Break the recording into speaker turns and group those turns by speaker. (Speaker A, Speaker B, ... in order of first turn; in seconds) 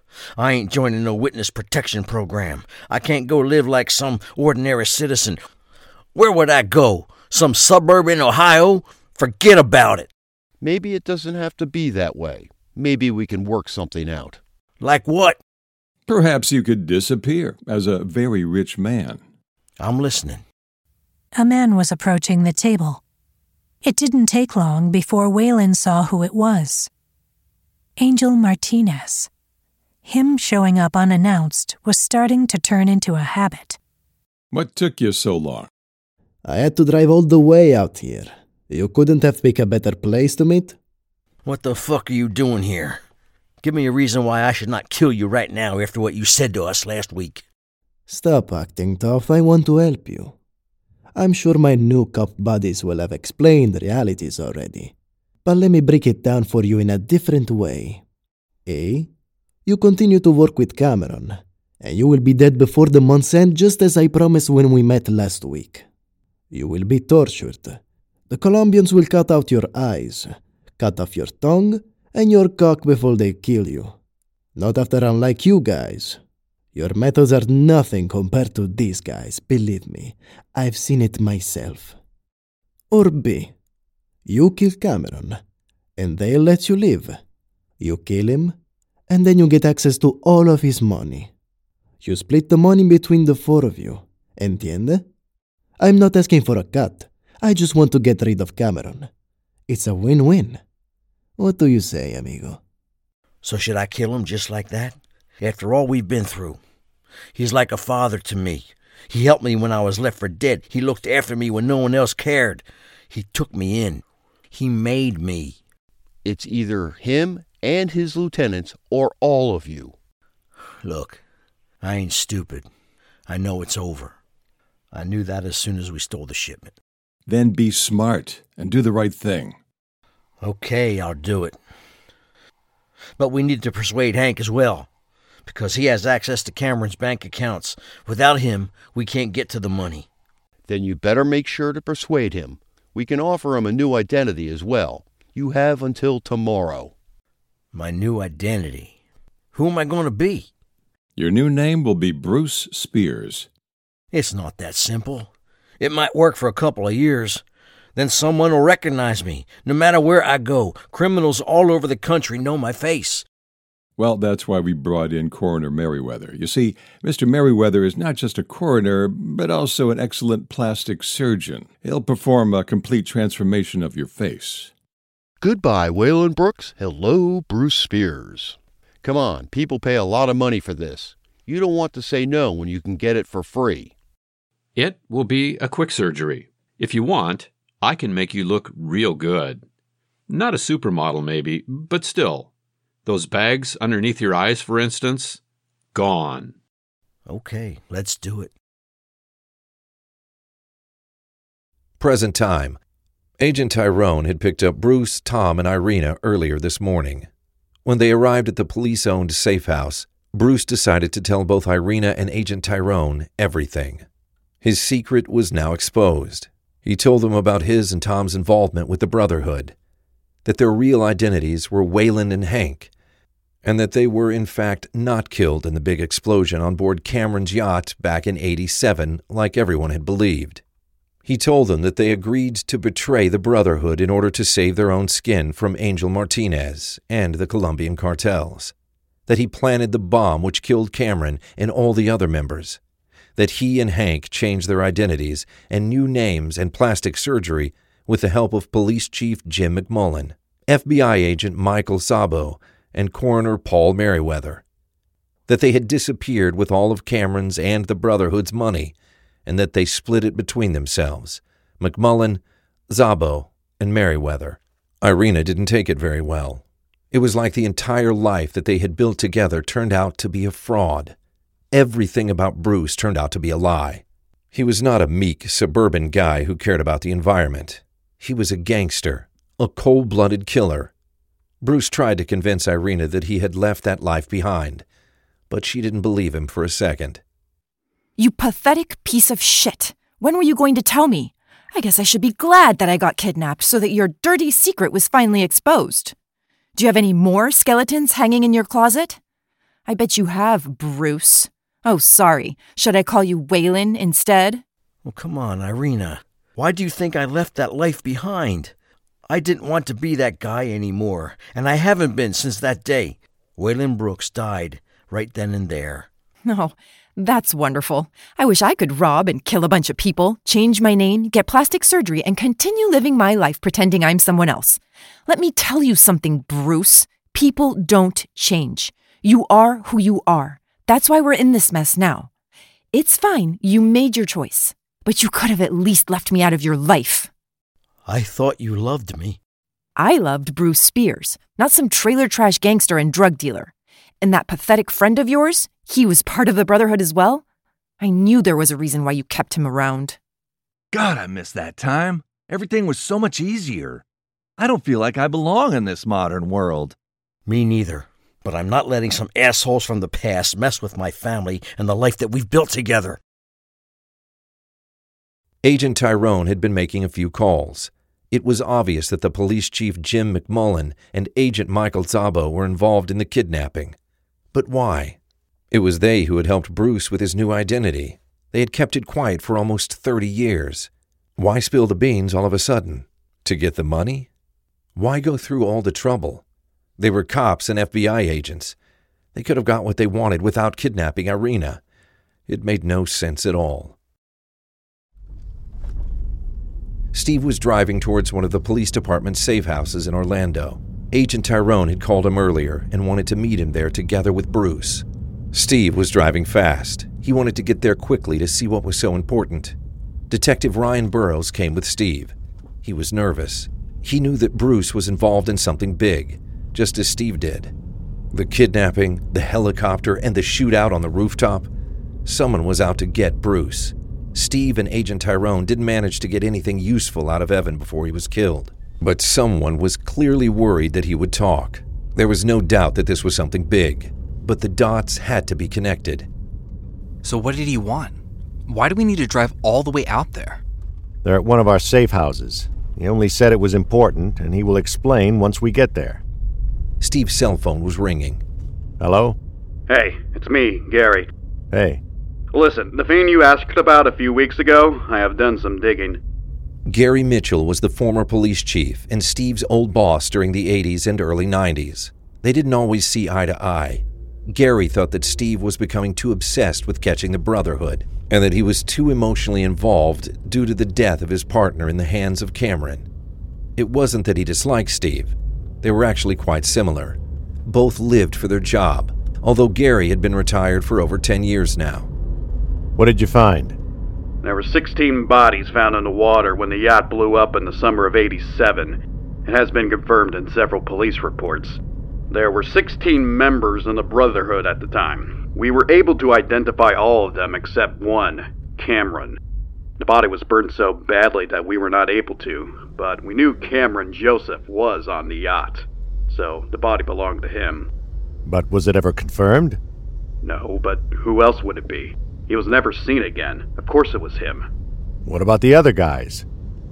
Speaker A: 0.4-5.4, 6.1-10.1, 14.8-15.4, 19.8-20.4, 41.4-43.0, 43.6-47.4, 103.4-106.6, 107.3-115.6, 120.8-121.2, 121.8-122.7, 123.3-124.1, 124.9-126.7, 130.4-131.6, 133.2-134.9, 135.4-140.1, 147.7-148.9, 149.5-150.5, 154.1-157.4, 157.9-163.2, 197.3-198.5, 305.0-308.7, 309.3-316.1, 338.1-339.4, 357.4-363.2
Speaker B: 10.6-14.4, 116.2-119.9, 140.7-146.9, 175.4-183.9
Speaker C: 16.1-19.2, 34.5-35.7, 127.3-129.6, 151.2-153.5, 164.0-174.7
Speaker D: 21.3-23.0, 23.8-26.9, 28.0-29.3, 30.0-33.8
Speaker E: 36.4-40.8, 48.1-50.3, 51.1-54.9, 55.4-58.0, 58.7-59.1, 59.6-65.8, 66.5-73.9, 74.6-76.2, 76.7-82.0, 82.9-83.5, 84.2-85.4, 86.0-87.2, 87.8-88.6, 89.1-91.3, 92.0-95.0, 95.8-99.1, 99.7-100.6, 101.4-102.6
Speaker F: 184.8-189.6, 190.3-192.5, 193.0-195.4, 195.9-196.5
Speaker G: 202.0-202.8, 203.4-207.3, 207.8-214.0, 214.6-219.7, 220.4-222.9, 223.6-230.6, 231.2-238.7, 239.3-242.8, 243.3-254.6, 255.5-258.9, 259.4-271.1, 271.7-280.9, 281.6-284.8, 285.5-287.2, 365.6-373.9, 374.5-375.2, 375.7-384.3, 384.9-386.4, 387.0-388.7, 389.3-391.8, 392.5-393.9, 397.1-409.7, 410.3-417.7, 418.3-421.7, 422.2-436.3, 447.0-448.4, 456.9-473.1, 473.8-482.1
Speaker H: 288.2-296.1, 296.8-299.2, 299.9-304.6, 316.4-332.3, 332.9-337.3, 339.9-347.4, 348.0-350.2
Speaker I: 350.9-354.0, 354.6-356.9
Speaker J: 437.2-440.6
Speaker K: 441.2-446.2, 449.0-449.4, 451.7-452.0, 482.9-483.8, 508.4-509.8, 515.2-516.4
Speaker L: 449.9-451.3, 452.5-456.2, 484.4-491.8, 492.3-499.4, 500.0-507.9, 510.4-514.6